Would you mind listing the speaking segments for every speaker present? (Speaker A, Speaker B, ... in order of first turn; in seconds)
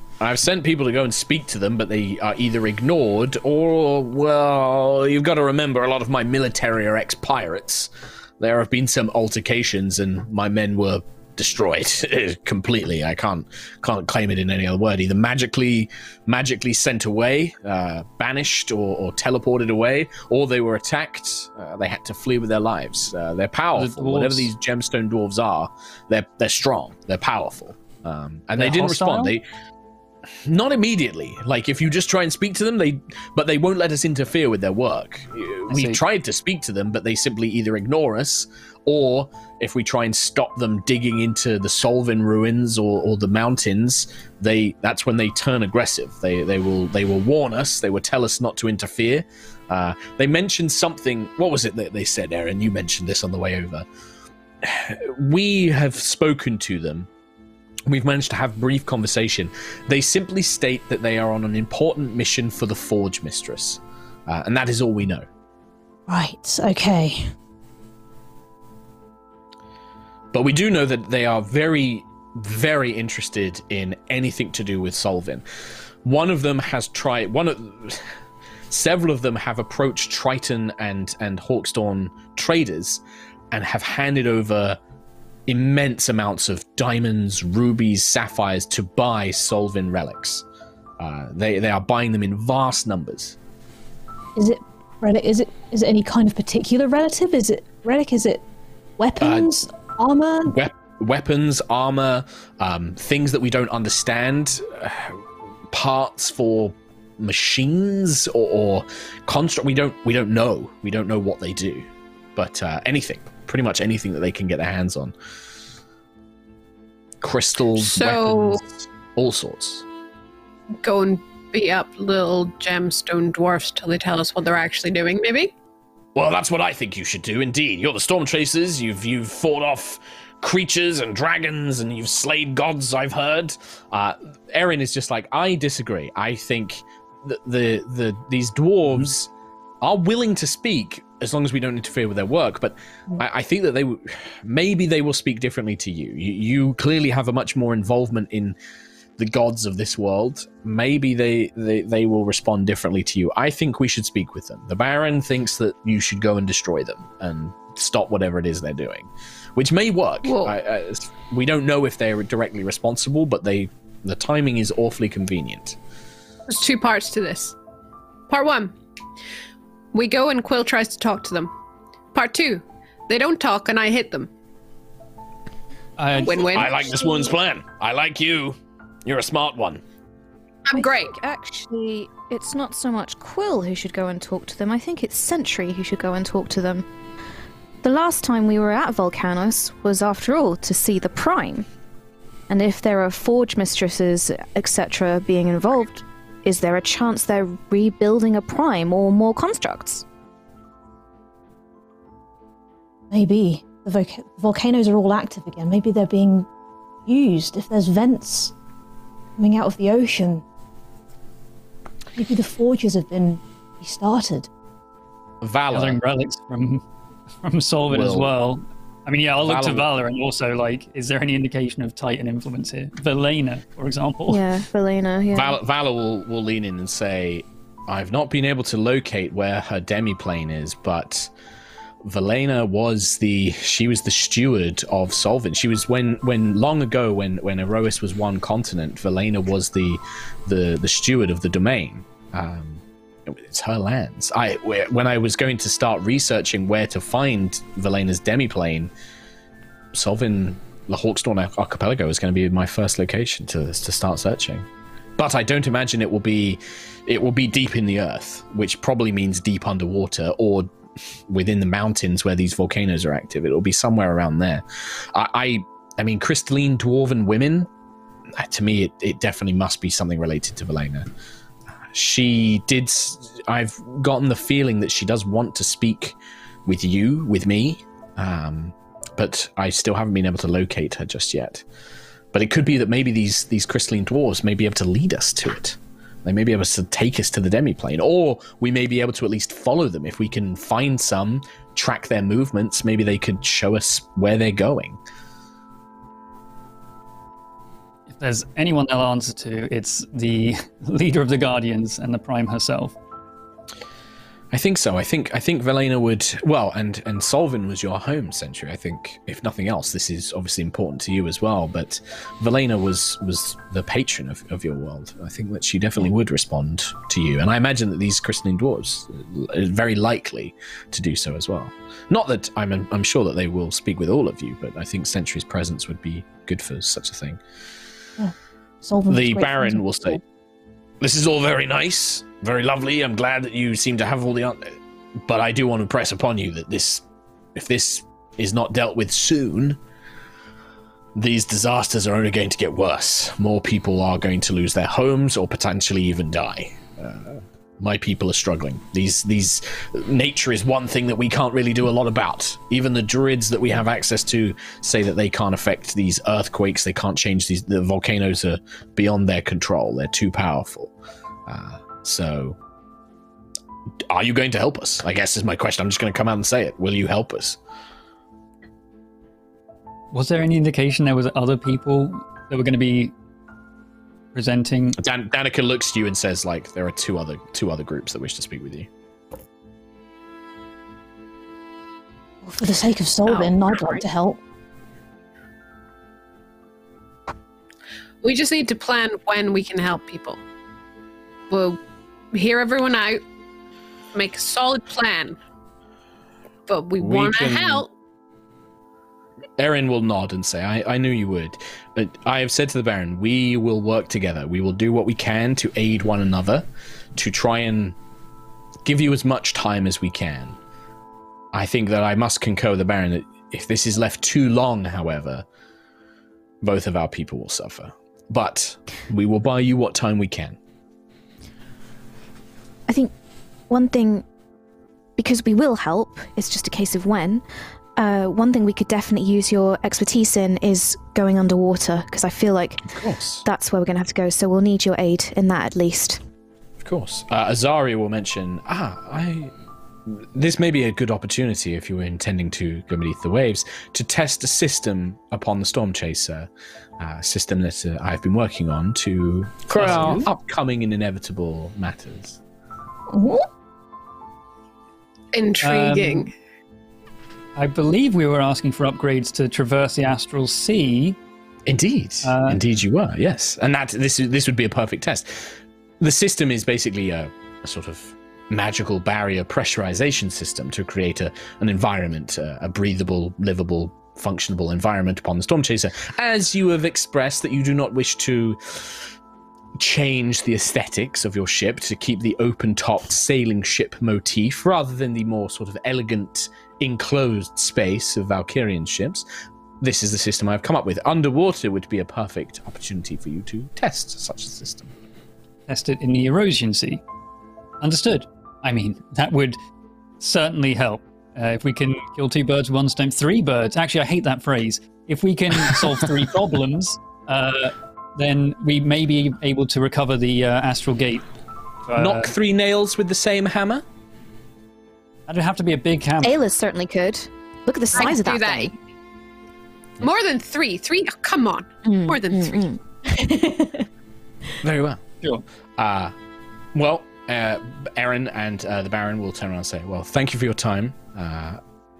Speaker A: 0.2-29.5, 30.4-53.9, 54.6-57.1, 57.9-65.2, 70.3-78.1, 78.7-84.8, 85.5-90.4, 91.0-93.4, 99.2-99.5, 100.5-115.1, 117.2-119.8, 126.1-139.3, 139.8-148.6, 149.2-165.8, 176.5-179.8, 215.4-216.0, 217.9-218.3, 219.4-219.9, 225.3-231.3, 232.0-248.9, 249.9-254.7, 255.2-260.7, 261.3-267.7, 268.3-271.1, 271.9-281.6, 282.3-295.0, 304.5-327.4, 329.1-330.2, 331.0-339.8, 341.1-360.9, 361.5-362.6, 364.1-367.6, 375.0-378.9, 397.0-397.9, 399.6-407.9, 408.8-410.6, 411.5-415.4, 416.6-420.6, 432.9-433.4, 436.8-439.5, 440.1-452.4, 461.6-479.1, 479.8-489.2, 489.8-494.9, 511.9-513.8, 524.6-525.0, 525.8-526.1, 526.7-531.6
Speaker B: 23.7-24.5, 28.6-29.3, 35.7-36.0, 176.0-176.5, 215.7-216.8, 217.4-224.4, 298.1-302.9, 370.1-373.1, 374.3-375.0, 449.7-450.2, 455.6-456.3, 457.6-461.2, 462.2-462.6, 495.7-497.0, 497.8-499.6, 500.2-511.2, 511.9-512.3, 515.3-516.4
Speaker C: 66.1-67.3, 94.3-98.4, 99.0-100.5, 203.1-206.5, 207.1-208.5, 209.4-210.4, 212.2-214.5, 328.2-330.2, 382.4-384.4, 453.1-453.5, 523.0-523.9
Speaker D: 117.8-118.6, 120.8-125.5, 160.2-160.5, 166.5-167.5, 168.3-168.7, 169.9-171.5, 172.1-174.3, 176.2-176.8, 180.7-181.1, 388.2-390.4, 391.5-391.8, 392.3-393.2, 394.1-395.4, 396.7-397.9, 455.3-456.3, 517.9-518.7, 520.0-522.7
Speaker E: 180.7-186.8, 187.8-191.7, 192.5-200.0, 224.3-225.6, 422.9-423.1, 423.7-424.2, 425.2-427.4, 427.9-432.9, 433.4-436.2, 516.2-518.7, 521.8-522.8